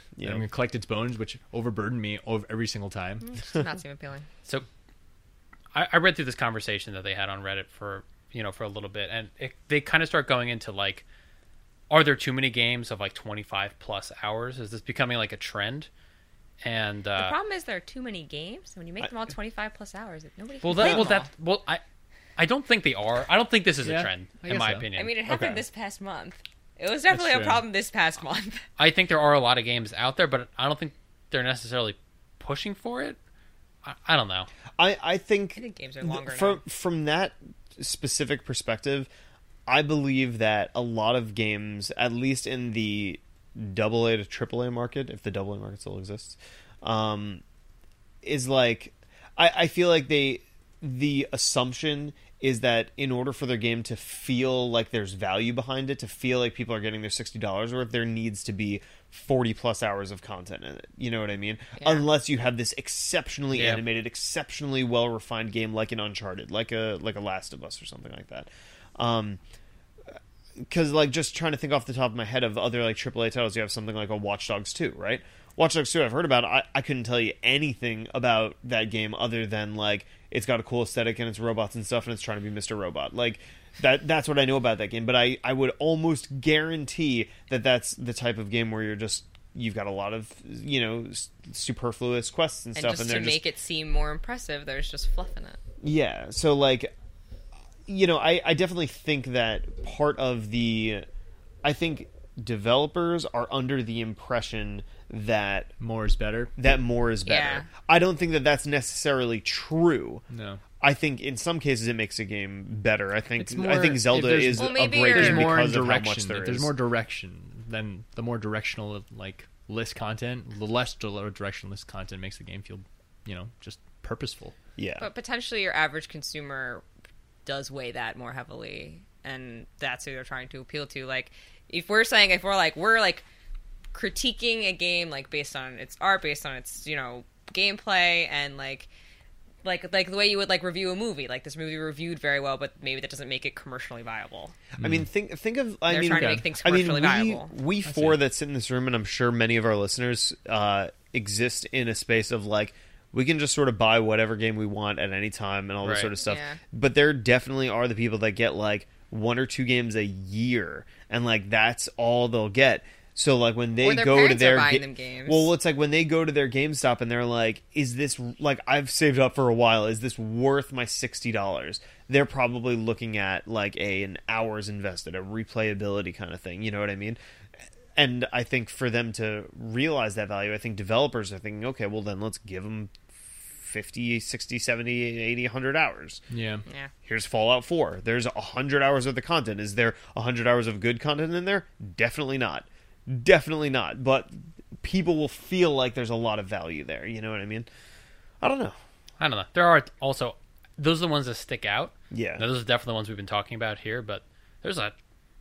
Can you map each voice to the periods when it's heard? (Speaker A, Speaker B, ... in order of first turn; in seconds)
Speaker A: 0.1-0.4, 20.7-21.1, 34.8-39.1, 39.7-47.4, 48.2-69.4, 70.1-93.4, 95.8-96.9, 97.8-101.0, 101.6-105.7, 106.6-110.2, 110.8-116.7, 124.8-125.1, 144.8-177.2, 177.9-186.2, 187.0-197.7, 198.4-198.8, 202.1-202.4
Speaker B: 0.2-3.3, 23.8-24.9, 27.1-27.6, 105.8-106.5, 110.3-110.6, 113.4-124.5, 144.8-145.0, 146.1-146.4, 147.8-148.2, 186.3-186.6
Speaker C: 3.2-4.3, 17.2-21.3, 24.9-28.6, 35.5-36.6, 61.8-62.0, 92.7-95.6, 107.2-107.7, 114.5-115.7, 125.0-126.8, 127.4-133.2, 133.9-138.9, 139.6-144.6, 145.9-147.5, 156.2-156.6, 163.8-165.5
Speaker D: 5.7-11.0, 11.9-15.9, 16.6-17.3, 20.6-21.8, 22.4-25.6, 28.8-33.2, 33.8-34.5, 63.5-63.8, 155.8-156.1, 199.2-204.9